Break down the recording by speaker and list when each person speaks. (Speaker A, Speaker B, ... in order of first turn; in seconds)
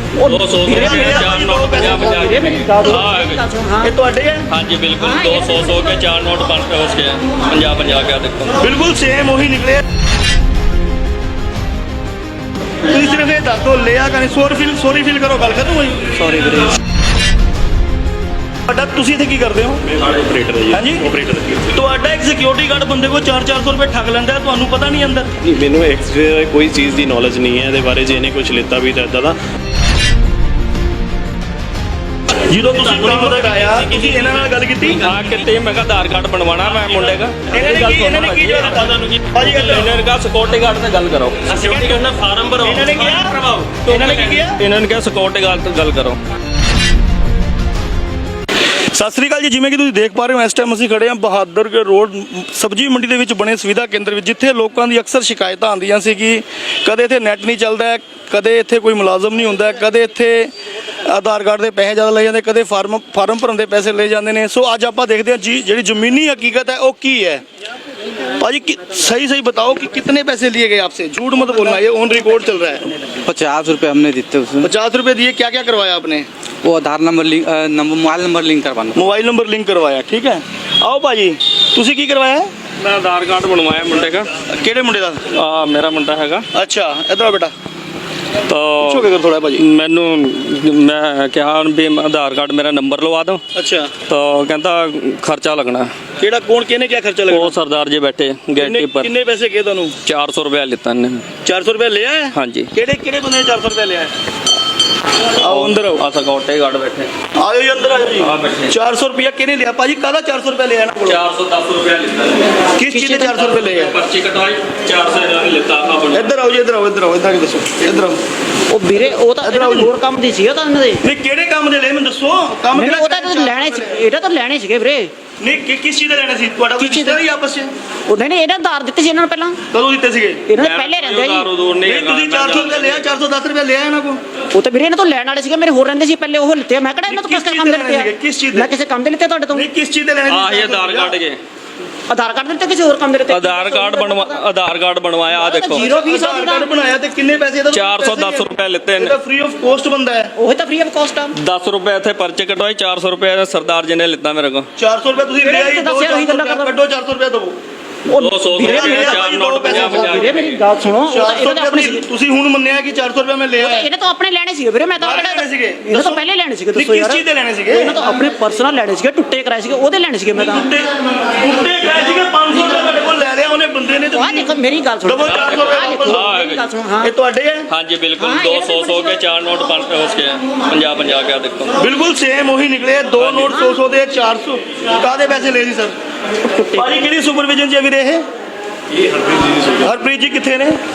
Speaker A: 0.2-4.0, 5.0-6.0, 16.1-16.7, 112.9-113.7, 118.7-121.0, 122.7-125.1, 126.8-127.2, 128.1-129.6, 130.5-131.5, 134.5-139.7, 142.1-144.4, 145.3-146.7, 150.4-151.3, 155.4-156.7, 158.1-162.0, 163.6-170.7, 174.1-177.1, 178.2-179.2, 186.4-186.9
Speaker B: 0.2-3.4, 4.5-8.5, 35.0-38.7, 39.7-41.6, 44.5-46.2, 82.8-84.2, 85.3-86.4, 88.5-89.0, 89.6-93.4, 94.1-95.9, 97.3-99.1, 100.0-101.2, 102.3-102.7, 105.4-107.1, 108.2-108.7, 111.1-112.5, 113.9-116.2, 130.6-133.0, 140.3-141.4, 143.3-145.9, 147.7-149.2, 151.4-154.7, 158.1-160.6, 175.3-176.7, 177.7-181.7, 183.2-183.5
Speaker C: 0.7-2.3, 3.8-4.5, 8.6-9.8, 12.8-16.1, 18.7-19.8, 20.7-21.1, 21.7-25.3, 32.5-35.0, 37.5-39.9, 42.6-44.6, 48.9-60.5, 61.0-67.4, 68.4-72.8, 74.6-76.3, 78.9-82.5, 84.5-85.2, 86.5-87.5, 88.8-89.6, 93.5-93.9, 96.2-97.5, 98.6-99.9, 101.4-104.1, 105.4-106.0, 107.3-111.2, 112.8-113.9, 116.1-118.2, 119.4-119.9, 121.0-124.0, 125.4-127.7, 129.7-130.4, 131.8-134.2, 137.1-138.7, 139.5-141.2, 145.9-150.3, 154.8-157.6, 158.6-160.3, 161.1-163.9, 165.0-167.9, 170.3-174.5, 175.0-176.2, 177.0-177.7, 181.8-185.9, 186.7-188.2, 189.8-190.8
Speaker D: 19.9-21.8, 25.4-29.3, 32.7-35.1, 37.5-39.9, 41.5-44.3, 188.9-189.9
Speaker E: 73.3-74.7, 76.6-79.0